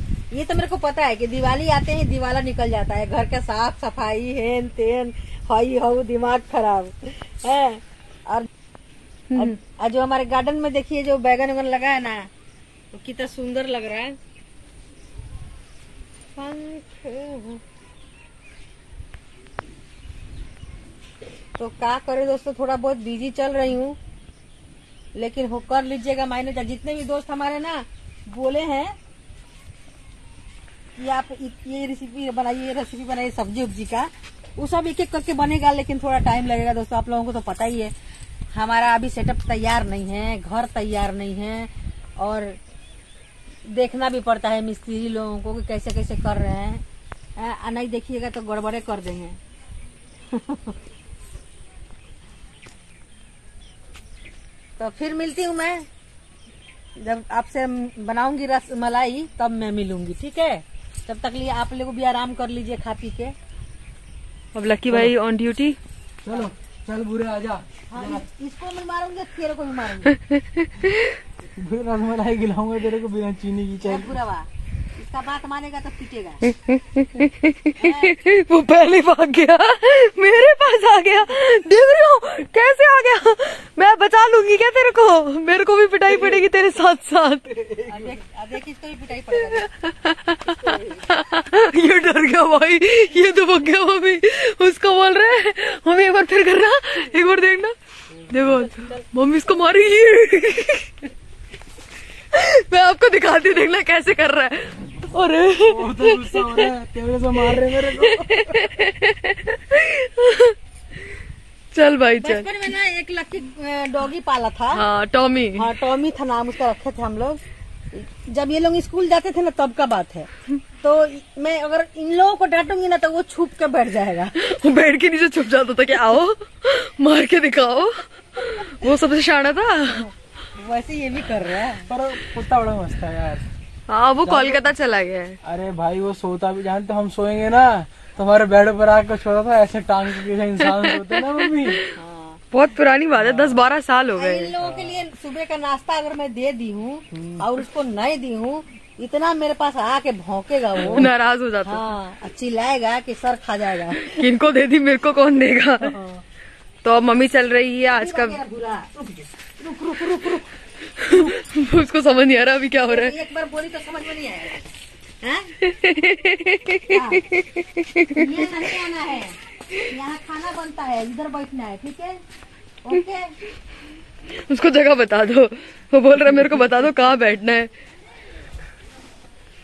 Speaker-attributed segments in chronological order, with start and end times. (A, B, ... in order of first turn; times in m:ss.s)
0:00.3-0:08.5 A
0:09.3-0:09.5 B
0:09.3-0:12.3 A
0:12.9-0:14.2 A
0:16.3-0:17.6 A
0:21.6-0:24.0 A
0:25.1-0:28.9 A
0:31.0-0:37.9 A
0:38.5-0:42.6 A
0:43.6-0:46.8 A
0:47.4-0:49.4 A
0:50.3-0:50.8 A
0:54.8-0:55.8 A
0:57.0-1:03.3 A
1:04.5-1:05.8 B
1:06.2-1:08.2 C
1:07.9-1:10.2 A
1:10.2-1:11.2 B
1:11.6-1:14.1 C
1:13.8-1:16.5 A
1:16.5-1:27.6 B
1:17.8-1:18.2 A
1:27.8-1:29.7 A
1:29.4-1:41.1 B
1:30.5-1:31.0 A
1:42.3-1:46.7 B
1:45.6-1:48.6 C
1:47.4-1:50.6 B
1:51.7-1:52.7 B
1:52.2-1:54.8 A
1:54.7-1:55.7 B
1:55.6-1:57.4 A
1:57.9-2:04.5 A
2:04.4-2:10.1 B
2:10.5-2:11.9 A
2:11.9-2:13.4 C
2:13.9-2:15.4 B
2:14.2-2:14.7 C
2:15.4-2:21.8 C
2:20.6-2:21.9 B
2:21.9-2:22.4 A
2:22.5-2:24.5 B
2:23.1-2:23.6 C
2:24.1-2:31.1 A
2:24.6-2:25.0 C
2:27.1-2:27.4 C
2:30.8-2:31.8 B
2:30.8-2:31.1 C
2:31.6-2:34.3 A
2:34.0-2:36.0 B
2:35.8-2:36.2 A
2:36.8-2:38.4 B
2:37.9-2:41.4 A
2:41.0-2:43.1 B
2:42.8-2:44.7 A
2:45.2-2:45.5 A
2:45.6-2:48.4 B
2:46.9-2:47.3 A
2:48.1-2:52.2 A
2:52.8-2:53.3 A
2:54.3-2:57.7 B